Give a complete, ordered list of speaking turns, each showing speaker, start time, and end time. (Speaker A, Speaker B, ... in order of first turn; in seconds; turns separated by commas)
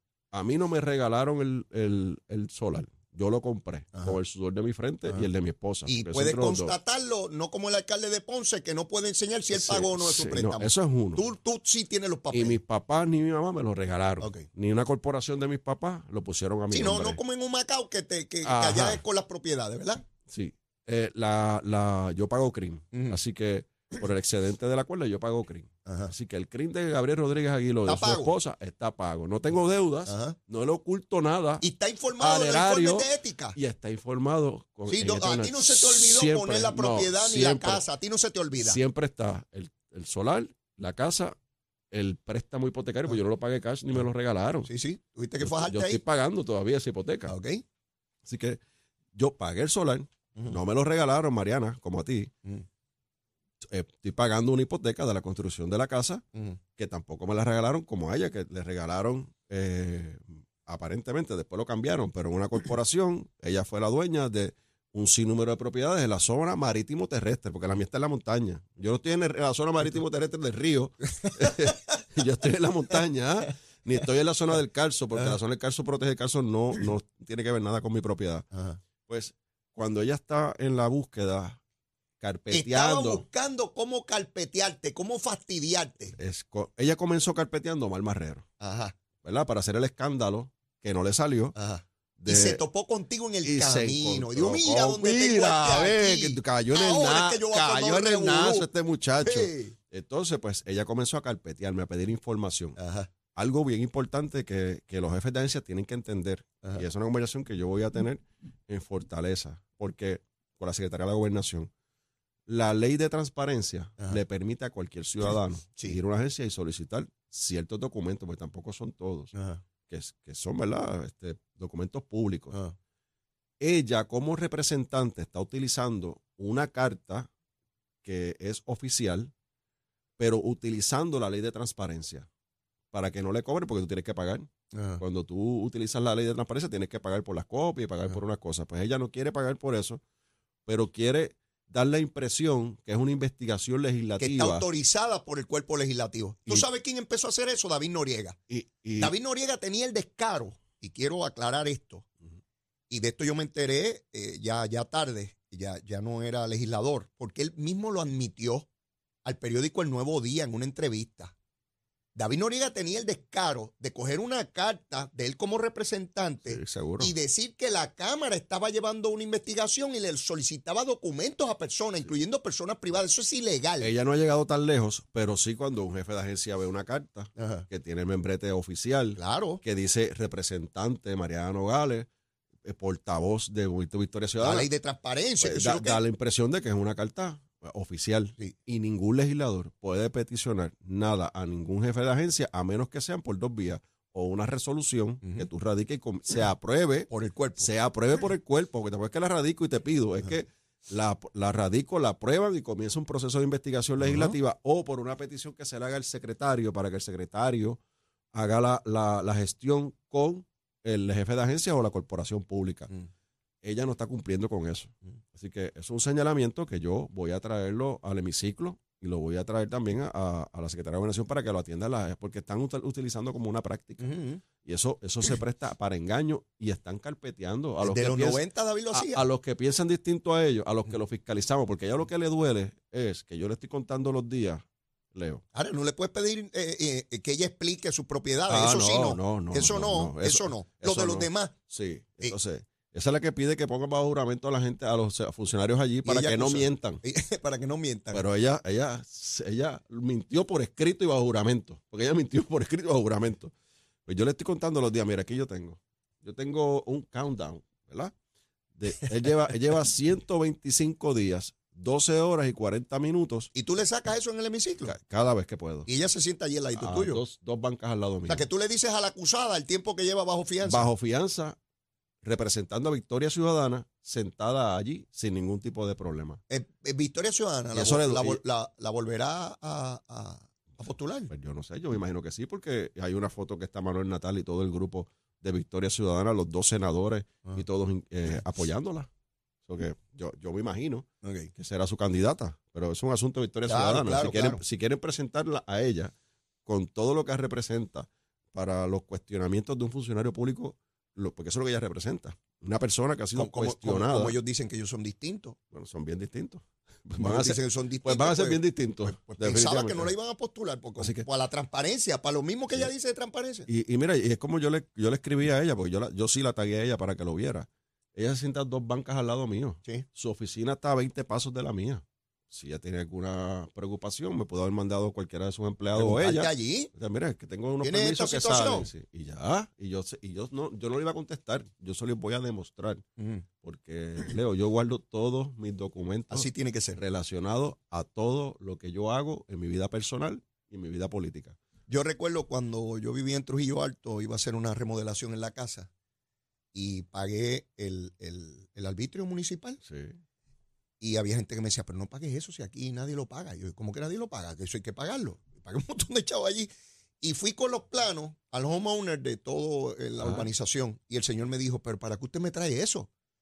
Speaker A: 0.3-6.8, Speaker B: 5.9-12.6, Speaker A: 9.5-11.2, Speaker A: 12.3-17.2, Speaker B: 14.2-14.5, Speaker B: 16.7-20.1, Speaker A: 18.4-19.0, Speaker A: 20.3-31.6, Speaker B: 22.9-23.2, Speaker B: 25.9-26.1, Speaker B: 27.9-28.3, Speaker B: 30.1-30.4, Speaker B: 31.6-33.6, Speaker A: 32.2-37.8, Speaker B: 34.9-38.8, Speaker A: 38.6-41.4, Speaker A: 41.9-44.7, Speaker B: 44.7-46.0, Speaker A: 45.4-47.3, Speaker B: 47.3-47.6, Speaker A: 48.2-48.6, Speaker A: 49.1-52.3, Speaker A: 53.6-56.2, Speaker B: 56.3-56.6, Speaker A: 56.8-78.5, Speaker B: 71.2-71.7, Speaker B: 78.5-78.8, Speaker A: 79.1-81.6, Speaker A: 82.2-83.2, Speaker B: 82.5-86.2, Speaker A: 86.2-88.5, Speaker B: 88.6-89.0, Speaker A: 89.2-91.6, Speaker B: 91.6-98.7, Speaker A: 92.2-92.6, Speaker A: 93.4-102.8, Speaker B: 99.2-99.8, Speaker B: 102.8-103.1, Speaker A: 103.3-111.7, Speaker A: 112.5-119.3, Speaker B: 119.3-119.6, Speaker A: 119.9-122.6, Speaker A: 123.6-127.3, Speaker A: 128.0-129.3, Speaker A: 130.2-132.3, Speaker A: 132.9-140.0, Speaker B: 134.7-135.0, Speaker A: 140.7-144.7, Speaker B: 144.2-148.4, Speaker A: 148.5-149.1, Speaker B: 149.0-152.1, Speaker B: 152.9-158.7, Speaker B: 159.2-161.3, Speaker B: 162.2-173.9, Speaker A: 166.4-167.1, Speaker A: 173.8-182.1, Speaker B: 177.4-177.7, Speaker B: 179.2-179.6, Speaker A: 182.6-184.7, Speaker B: 184.4-186.0, Speaker A: 185.4-207.8, Speaker B: 197.1-197.7, Speaker B: 204.0-204.4, Speaker A: 208.3-212.9, Speaker A: 213.6-235.4, Speaker B: 224.0-224.4, Speaker B: 227.8-229.2, Speaker B: 235.5-241.5, Speaker A: 238.5-247.0, Speaker B: 246.0-248.2, Speaker A: 248.1-253.5, Speaker A: 254.1-258.1, Speaker A: 258.8-263.5, Speaker B: 263.6-264.9, Speaker A: 264.9-265.9, Speaker B: 265.9-267.2, Speaker A: 266.8-268.5, Speaker B: 268.3-270.9, Speaker A: 270.6-271.6, Speaker A: 272.2-276.4, Speaker B: 276.5-281.3, Speaker A: 277.7-278.4, Speaker A: 281.3-289.1, Speaker A: 289.7-296.1, Speaker B: 291.2-291.5, Speaker B: 293.7-294.6, Speaker A: 296.7-304.3, Speaker B: 303.4-305.6, Speaker A: 305.7-310.1, Speaker B: 307.2-313.7, Speaker A: 311.0-311.3, Speaker A: 313.7-333.0, Speaker B: 325.9-326.9, Speaker B: 327.8-328.9, Speaker B: 333.2-333.4, Speaker A: 333.6-341.6, Speaker B: 336.3-337.0, Speaker B: 341.9-345.9, Speaker B: 346.7-349.8, Speaker A: 349.8-350.2, Speaker B: 351.0-356.7, Speaker B: 357.2-363.1, Speaker A: 360.2-360.5